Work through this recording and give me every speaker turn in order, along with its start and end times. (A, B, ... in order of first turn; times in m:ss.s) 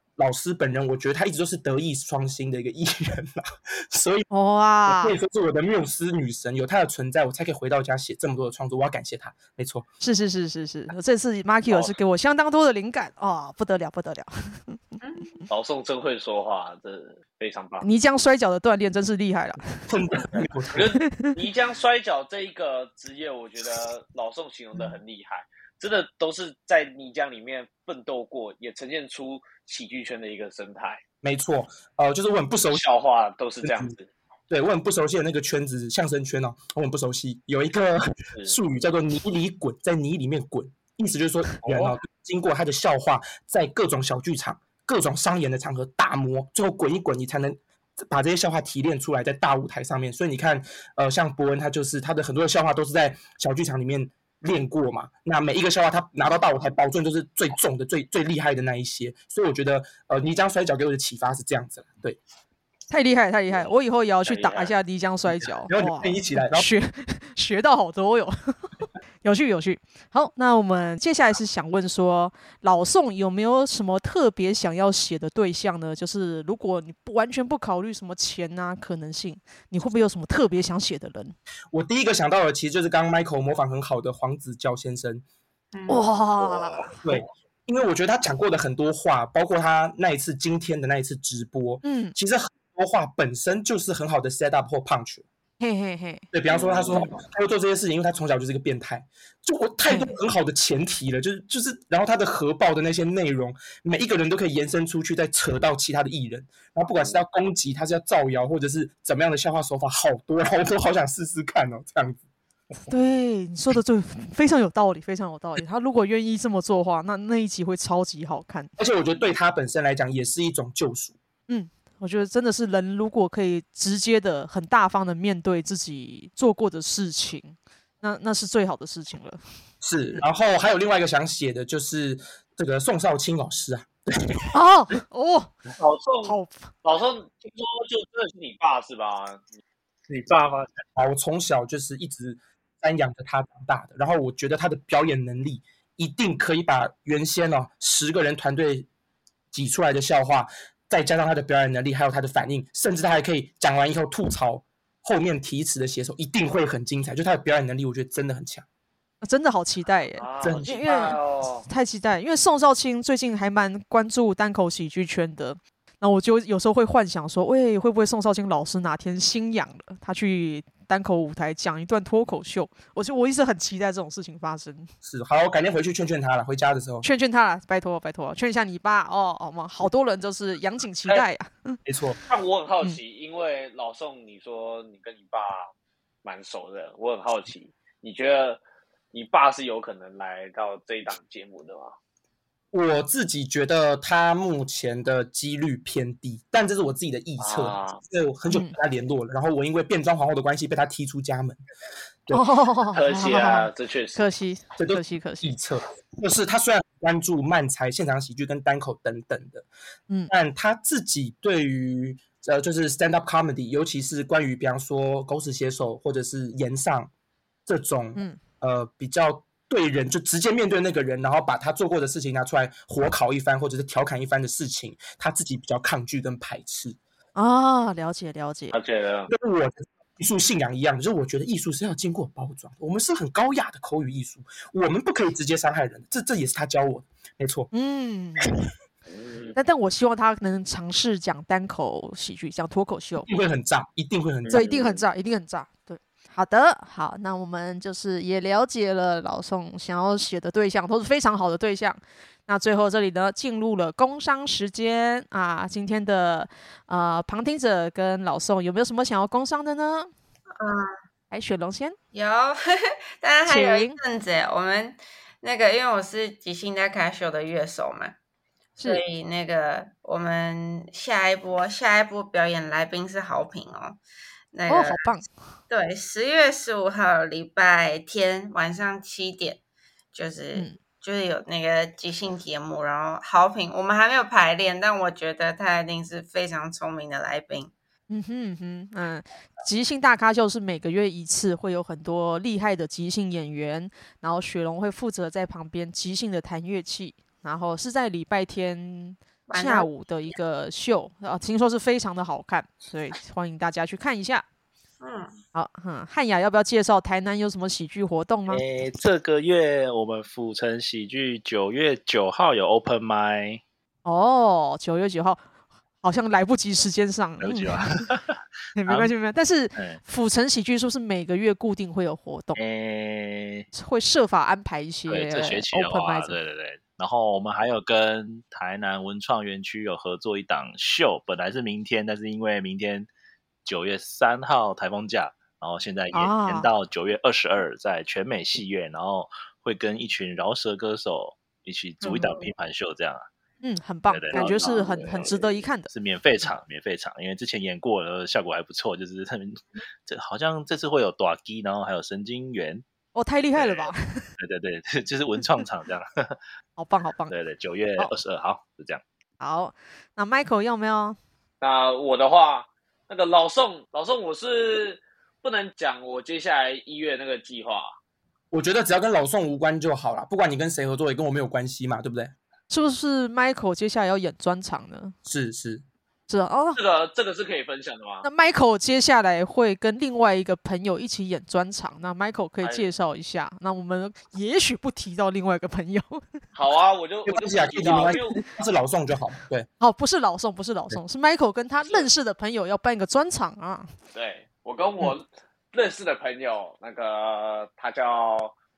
0:00.2-0:04.2 A
0:04.3-0:05.2 B
0:04.8-0:09.9 A
0:10.0-0:14.8 B
0:11.7-0:11.9 C
0:15.0-0:15.3 D
0:15.5-0:17.9 C
0:17.8-0:19.9 B
0:19.9-0:20.9 A
0:20.7-0:31.0 C
0:31.2-0:32.8 A
0:32.7-0:34.1 C
0:33.6-0:33.9 A
0:34.5-1:02.2 A
0:41.6-0:42.0 C
1:02.9-1:08.7 B
1:04.2-1:04.7 C
1:05.7-1:06.7 A
1:09.2-1:21.3 B
1:21.7-1:25.2 A
1:25.7-1:26.0 D
1:25.9-1:26.9 B
1:27.0-1:35.2 A
1:31.8-1:32.1 B
1:35.6-1:36.2 B
1:36.3-1:52.2 A
1:36.5-1:37.2 C
1:39.9-1:40.1 B
1:46.9-1:47.2 C
1:52.9-1:58.7 B
1:58.8-2:01.2 A
2:01.5-2:09.4 B
2:09.8-2:14.5 A
2:14.5-2:15.5 B
2:16.0-2:19.6 C
2:16.2-2:16.7 B
2:20.1-2:20.8 E
2:21.0-2:28.9 A
2:29.5-2:38.6 A
2:39.2-2:54.9 B
2:40.2-2:41.6 C
2:40.4-2:40.7 A
2:55.0-2:57.0 A
2:57.0-3:01.8 B
3:01.8-3:02.2 A
3:02.2-3:05.6 C
3:06.2-3:08.6 C
3:09.1-3:12.0 C
3:12.7-3:21.6 A
3:17.4-3:18.0 C
3:18.5-3:18.8 B
3:22.3-3:25.5 B
3:22.9-3:24.2 C
3:24.8-3:29.7 A
3:30.3-3:37.1 A
3:37.6-3:47.0 A
3:47.4-3:48.8 B
3:48.7-3:49.3 C
3:49.3-3:57.7 A
3:57.7-3:58.5 B
3:59.1-3:59.5 C
3:59.5-4:03.3 B
4:03.2-4:04.7 A
4:04.4-4:05.0 C
4:04.5-4:20.1 B
4:20.6-4:20.9 D
4:21.3-4:22.0 B
4:22.1-4:28.1 D
4:23.5-4:24.0 B
4:28.8-4:34.0 D
4:34.5-4:35.0 D
4:34.7-4:35.3 B
4:35.7-4:39.6 D
4:40.1-4:47.7 D
4:48.1-5:04.4 B
4:59.5-4:59.9 D
5:05.0-5:05.4 D
5:05.5-5:08.6 B
5:08.5-5:13.6 E
5:14.0-5:15.4 B
5:16.0-5:18.1 B
5:17.4-5:19.1 E
5:18.8-5:22.6 B
5:22.6-5:23.7 E
5:23.7-5:26.4 B
5:25.1-5:33.1 E
5:33.6-5:43.2 E
5:36.1-5:36.7 B
5:42.0-5:42.3 B
5:43.6-5:46.5 B
5:44.1-5:52.8 E
5:44.3-5:45.3 C
5:53.1-5:54.3 B
5:54.4-5:56.4 E
5:56.8-5:57.3 B
5:57.3-5:59.0 E
5:59.4-6:01.2 B
6:01.6-6:07.9 C
6:08.5-6:12.3 A
6:12.7-6:15.1 B
6:15.2-6:15.8 A
6:16.3-6:16.8 B
6:16.7-6:18.2 C
6:18.2-6:26.2 B
6:22.6-6:22.9 C
6:26.5-6:28.4 C
6:27.2-6:29.7 A
6:29.8-6:33.9 B
6:34.1-6:38.5 C